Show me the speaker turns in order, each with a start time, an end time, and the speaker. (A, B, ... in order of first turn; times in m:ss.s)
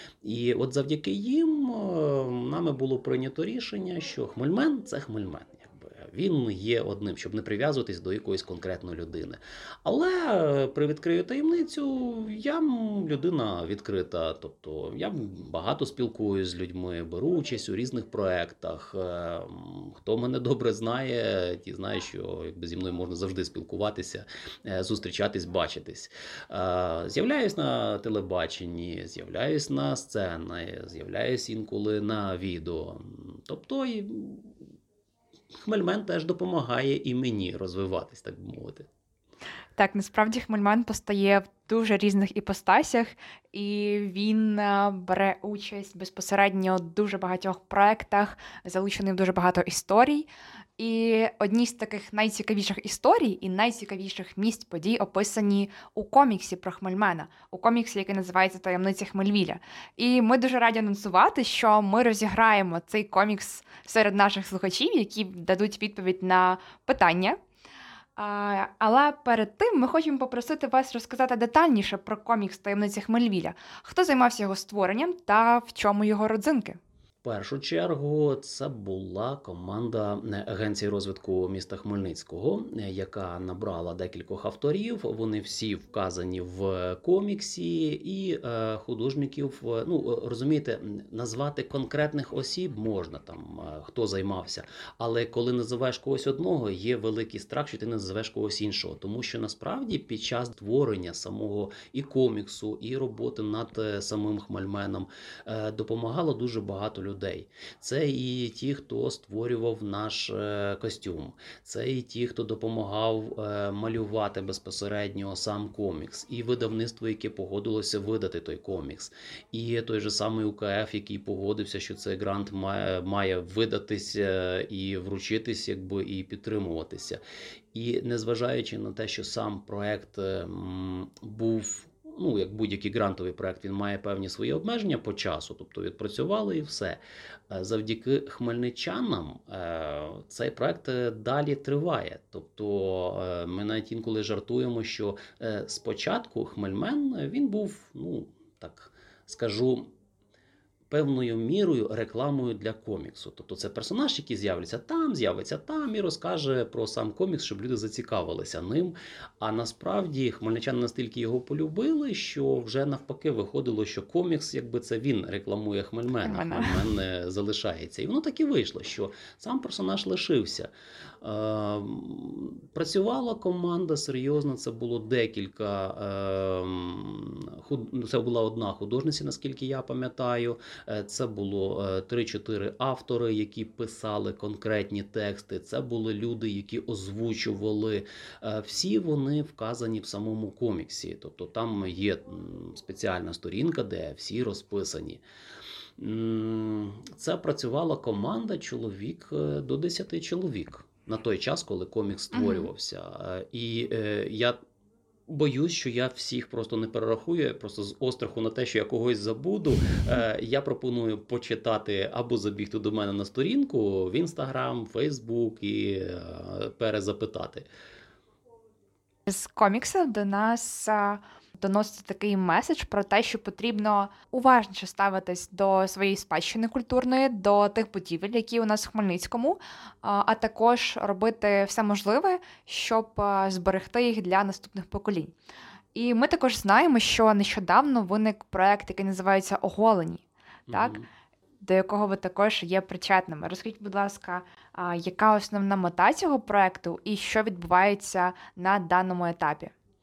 0:00.2-0:34.5 A
0:35.6-0:38.9 A
0:39.8-1:07.4 B
1:08.2-1:16.8 B
1:17.2-2:07.2 A
2:07.7-2:29.9 A
2:30.9-2:50.7 A
2:46.2-2:46.8 B
2:51.2-3:15.2 A
3:16.0-3:24.6 A
3:22.3-3:22.7 B
3:25.3-3:37.6 A
3:39.3-3:55.3 B
3:55.9-4:01.0 B
4:00.7-4:01.1 A
4:01.6-4:09.7 B